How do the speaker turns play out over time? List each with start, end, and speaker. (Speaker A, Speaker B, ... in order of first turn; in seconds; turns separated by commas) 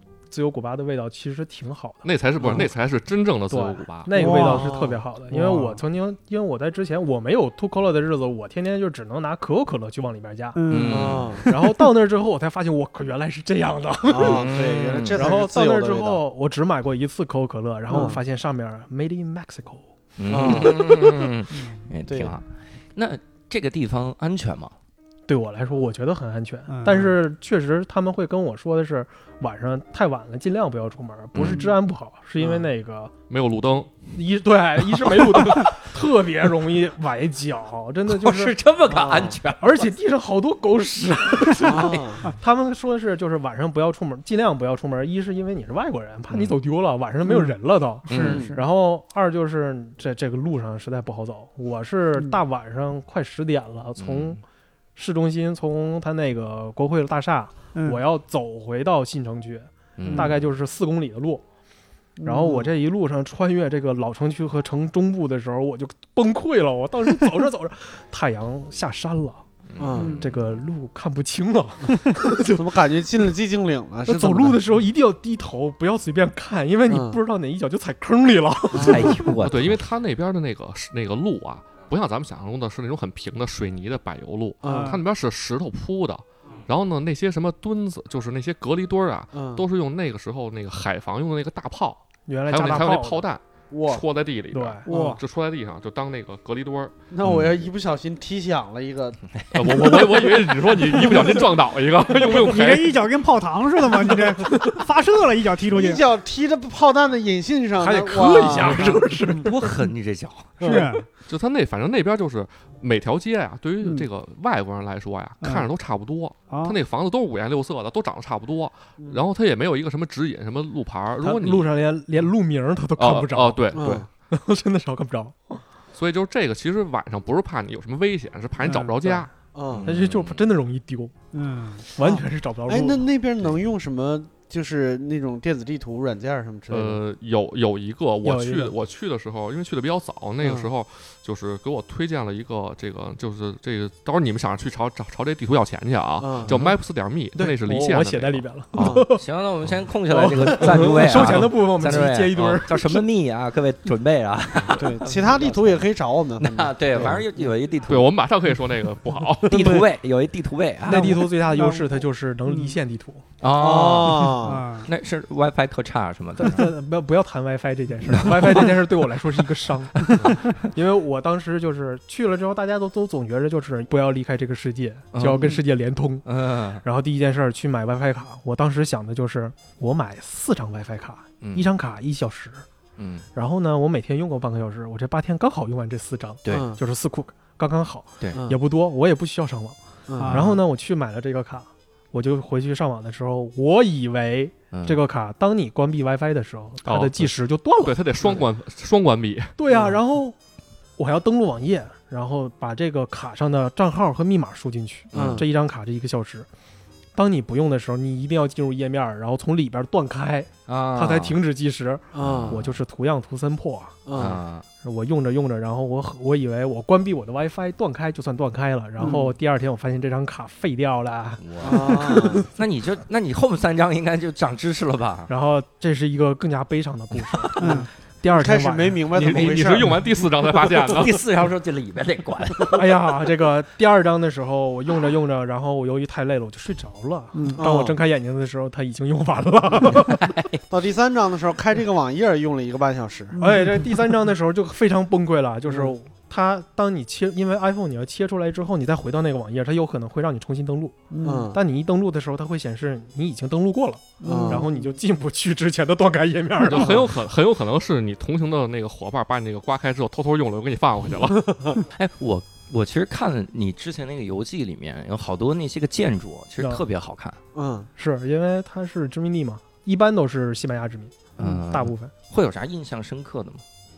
Speaker A: 0.3-2.6, Speaker B: 2.0-4.1, Speaker A: 3.5-10.6, Speaker C: 4.1-4.7, Speaker D: 4.2-5.0, Speaker C: 5.3-5.7, Speaker C: 10.5-11.8, Speaker E: 10.7-11.4, Speaker D: 10.9-11.4, Speaker A: 11.4-19.8, Speaker D: 14.1-16.2, Speaker E: 14.2-15.3, Speaker D: 17.9-18.2, Speaker E: 20.2-24.7, Speaker D: 20.3-21.2, Speaker A: 20.4-20.7, Speaker D: 22.1-22.3, Speaker A: 25.3-33.1, Speaker C: 26.7-27.1, Speaker E: 31.3-31.7, Speaker D: 32.4-32.6, Speaker B: 33.3-33.9, Speaker A: 34.1-38.6, Speaker E: 38.1-39.9, Speaker D: 38.9-39.4, Speaker A: 39.5-54.4, Speaker E: 41.4-42.2, Speaker D: 41.6-42.2, Speaker E: 46.3-46.5, Speaker C: 47.2-47.5, Speaker E: 48.1-48.5, Speaker C: 48.1-48.5, Speaker D: 48.2-48.5, Speaker E: 54.0-54.4, Speaker A: 55.0-61.4, Speaker C: 57.7-58.0, Speaker E: 60.0-60.4, Speaker C: 60.0-60.4, Speaker C: 62.2-62.7, Speaker A: 62.2-69.4, Speaker E: 69.7-70.2, Speaker D: 69.8-70.2, Speaker C: 69.9-70.2, Speaker A: 70.2-72.9, Speaker D: 72.5-74.6, Speaker A: 74.0-79.3, Speaker D: 76.9-77.2, Speaker D: 78.7-79.1, Speaker E: 78.7-79.8, Speaker B: 79.4-96.9, Speaker D: 84.6-85.0, Speaker C: 84.7-85.0, Speaker D: 89.3-89.6, Speaker A: 92.2-93.3, Speaker D: 93.7-94.0, Speaker A: 94.5-94.9, Speaker C: 94.8-95.2, Speaker D: 97.1-99.2, Speaker E: 97.2-97.6, Speaker E: 99.3-100.2, Speaker B: 99.5-102.9, Speaker D: 100.9-101.4, Speaker C: 102.3-106.0, Speaker A: 104.4-104.7, Speaker D: 105.7-109.5, Speaker A: 107.8-109.7, Speaker E: 109.4-110.8, Speaker D: 110.6-110.9, Speaker C: 110.6-111.0, Speaker B: 111.3-121.7, Speaker C: 113.8-114.1, Speaker C: 115.4-115.7, Speaker C: 116.5-116.8, Speaker D: 119.0-119.2, Speaker A: 121.2-125.6, Speaker B: 123.0-124.1, Speaker D: 123.7-124.1, Speaker B: 125.9-129.3, Speaker C: 128.6-129.0, Speaker D: 129.5-129.9, Speaker E: 129.7-130.4, Speaker A: 129.8-131.1, Speaker C: 131.3-131.8, Speaker A: 131.9-133.0, Speaker D: 132.0-137.0, Speaker B: 136.7-149.0, Speaker A: 138.2-138.7, Speaker D: 140.4-140.7, Speaker D: 146.2-146.7, Speaker A: 147.3-149.2, Speaker D: 148.8-149.1, Speaker E: 149.2-155.8, Speaker A: 150.1-153.0, Speaker D: 154.7-157.5, Speaker E: 156.4-158.1, Speaker B: 157.9-159.8, Speaker E: 159.5-161.2, Speaker D: 159.5-159.8, Speaker A: 160.9-163.2, Speaker C: 160.9-162.8, Speaker E: 163.4-166.7, Speaker D: 163.5-164.6, Speaker C: 164.4-164.9, Speaker A: 166.4-176.2, Speaker E: 168.1-168.7, Speaker E: 170.1-170.6, Speaker E: 175.1-175.6, Speaker E: 176.2-176.8, Speaker A: 176.8-182.6, Speaker E: 181.4-181.7, Speaker E: 183.0-183.2, Speaker A: 183.3-197.9, Speaker E: 186.4-186.7, Speaker D: 186.5-186.8, Speaker D: 188.3-188.6, Speaker D: 190.1-190.4, Speaker C: 190.2-190.6, Speaker E: 194.7-195.0, Speaker B: 196.8-199.5, Speaker A: 199.6-200.3, Speaker D: 199.7-200.0, Speaker A: 201.0-206.5, Speaker E: 205.1-205.4, Speaker D: 205.1-205.4, Speaker A: 207.1-214.0, Speaker E: 210.7-211.4, Speaker D: 212.1-212.6, Speaker E: 212.2-212.8, Speaker D: 214.1-214.4, Speaker E: 214.1-214.6, Speaker A: 214.8-222.5, Speaker D: 219.0-219.3, Speaker E: 221.4-225.3, Speaker D: 221.6-222.4, Speaker A: 225.3-229.0, Speaker E: 227.3-227.7, Speaker C: 227.6-227.9, Speaker D: 227.6-230.0, Speaker B: 229.1-231.2, Speaker E: 229.2-229.5, Speaker E: 230.4-232.8, Speaker A: 232.7-240.3, Speaker C: 237.3-237.6, Speaker D: 237.6-238.0, Speaker E: 240.0-240.6, Speaker D: 240.7-243.3, Speaker C: 243.3-244.0, Speaker A: 243.4-257.0, Speaker C: 251.1-251.5, Speaker D: 251.2-251.6, Speaker C: 254.2-254.7, Speaker D: 254.2-254.7, Speaker B: 256.6-261.5, Speaker D: 261.3-261.8, Speaker E: 261.9-267.4, Speaker D: 267.5-267.9, Speaker A: 267.9-272.1, Speaker E: 271.4-273.6